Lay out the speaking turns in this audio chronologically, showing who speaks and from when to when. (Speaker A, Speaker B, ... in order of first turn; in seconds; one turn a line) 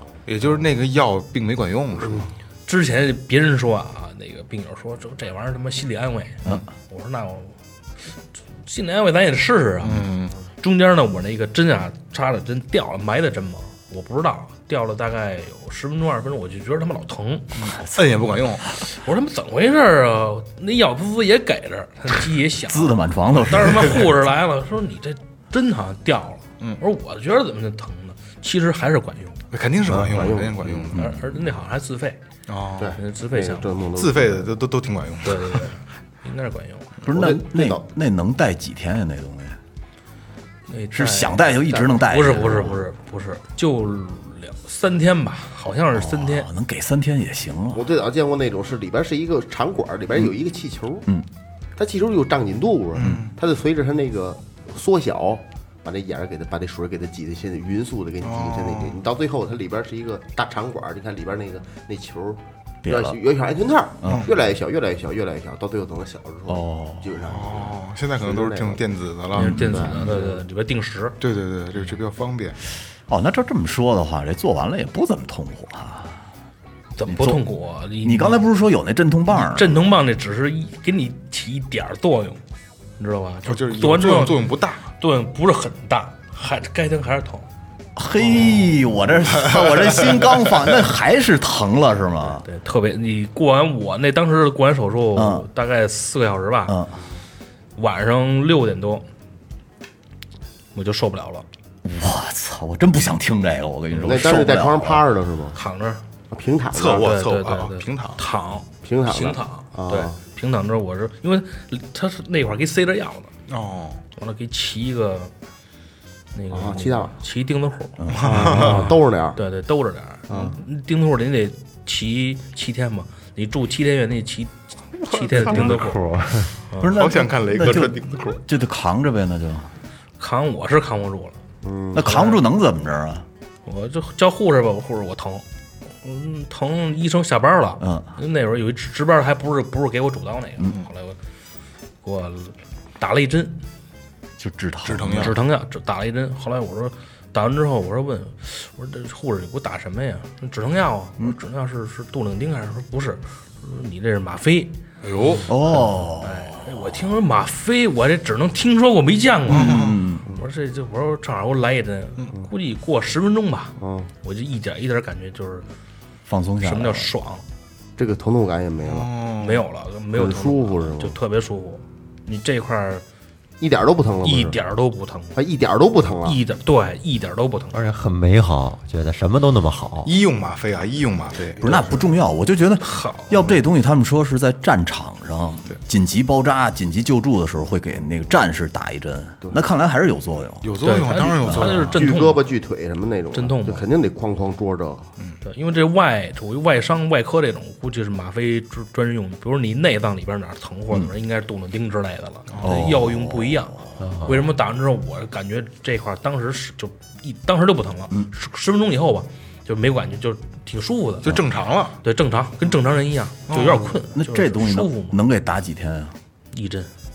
Speaker A: 0.3-2.3
Speaker B: 2.7-7.5
Speaker B: 8.7-10.1
Speaker A: 9.8-10.3
Speaker B: 10.6-17.5
Speaker A: 17.6-18.7
Speaker C: 17.6-18.0
Speaker B: 18.9-29.4
Speaker C: 22.7-24.1
Speaker A: 29.5-31.0
Speaker D: 30.0-30.9
Speaker B: 30.9-32.2
Speaker C: 30.9-31.2
Speaker A: 32.5-33.0
Speaker D: 32.8-34.5
Speaker B: 33.0-33.7
Speaker A: 34.0-35.7
Speaker B: 35.2-36.9
Speaker C: 37.0-39.6
Speaker D: 37.1-37.8
Speaker B: 40.7-46.5
Speaker C: 40.9-42.9
Speaker C: 45.9-47.8
Speaker D: 47.7-51.1
Speaker D: 51.8-68.8
Speaker A: 53.0-53.3
Speaker A: 58.2-59.0
Speaker C: 62.8-63.2
Speaker C: 64.0-64.3
Speaker A: 64.1-64.4
Speaker C: 66.5-67.2
Speaker A: 67.3-70.0
Speaker B: 69.3-71.2
Speaker C: 69.4-69.9
Speaker D: 69.4-70.4
Speaker A: 71.2-72.6
Speaker C: 73.1-76.2
Speaker B: 77.0-78.4
Speaker C: 77.1-77.5
Speaker C: 78.0-79.8
Speaker B: 79.3-82.4
Speaker B: 83.0-84.5
Speaker A: 83.5-84.9
Speaker B: 85.0-87.5
Speaker C: 88.0-92.5
Speaker A: 89.4-90.6
Speaker B: 92.4-96.8
Speaker C: 95.2-95.5
Speaker C: 96.7-96.9
Speaker B: 97.8-99.1
Speaker B: 100.7-101.5
Speaker C: 101.8-105.1
Speaker D: 104.0-105.6
Speaker B: 105.5-106.0
Speaker D: 106.3-107.1
Speaker A: 106.7-108.2
Speaker B: 106.9-113.3
Speaker D: 108.8-110.2
Speaker A: 113.5-114.0
Speaker B: 114.2-115.3
Speaker B: 116.3-126.0
Speaker D: 116.5-117.1
Speaker C: 118.0-118.7
Speaker A: 118.1-118.9
Speaker D: 118.1-119.4
Speaker E: 125.3-126.6
Speaker C: 126.8-129.7
Speaker A: 126.8-128.4
Speaker B: 130.2-131.4
Speaker D: 131.6-132.1
Speaker C: 131.9-133.3
Speaker B: 132.0-132.4
Speaker B: 133.7-135.4
Speaker B: 136.0-141.2
Speaker C: 137.8-138.1
Speaker B: 142.0-143.6
Speaker C: 144.4-145.4
Speaker A: 144.8-145.3
Speaker B: 145.1-154.8
Speaker A: 155.0-155.5
Speaker C: 155.5-156.8
Speaker B: 155.6-165.7
Speaker C: 159.5-160.3
Speaker A: 159.5-160.0
Speaker D: 163.8-164.1
Speaker C: 166.3-167.1
Speaker B: 166.6-167.4
Speaker D: 168.0-169.1
Speaker A: 168.8-169.6
Speaker B: 169.4-173.0
Speaker D: 170.2-171.2
Speaker D: 173.6-174.6
Speaker B: 174.2-175.4
Speaker D: 175.3-176.4
Speaker B: 176.2-177.8
Speaker E: 177.7-180.1
Speaker A: 180.1-181.6
Speaker D: 181.6-182.1
Speaker C: 181.6-190.7
Speaker B: 182.8-183.4
Speaker A: 190.6-192.0
Speaker B: 190.8-192.5
Speaker D: 191.8-195.1
Speaker B: 193.3-193.9
Speaker B: 195.4-211.4
Speaker A: 202.5-202.8
Speaker C: 202.6-204.0
Speaker E: 204.0-204.4
Speaker A: 211.2-212.0
Speaker B: 212.0-215.2
Speaker A: 213.5-213.9
Speaker C: 214.0-216.1
Speaker B: 216.5-216.9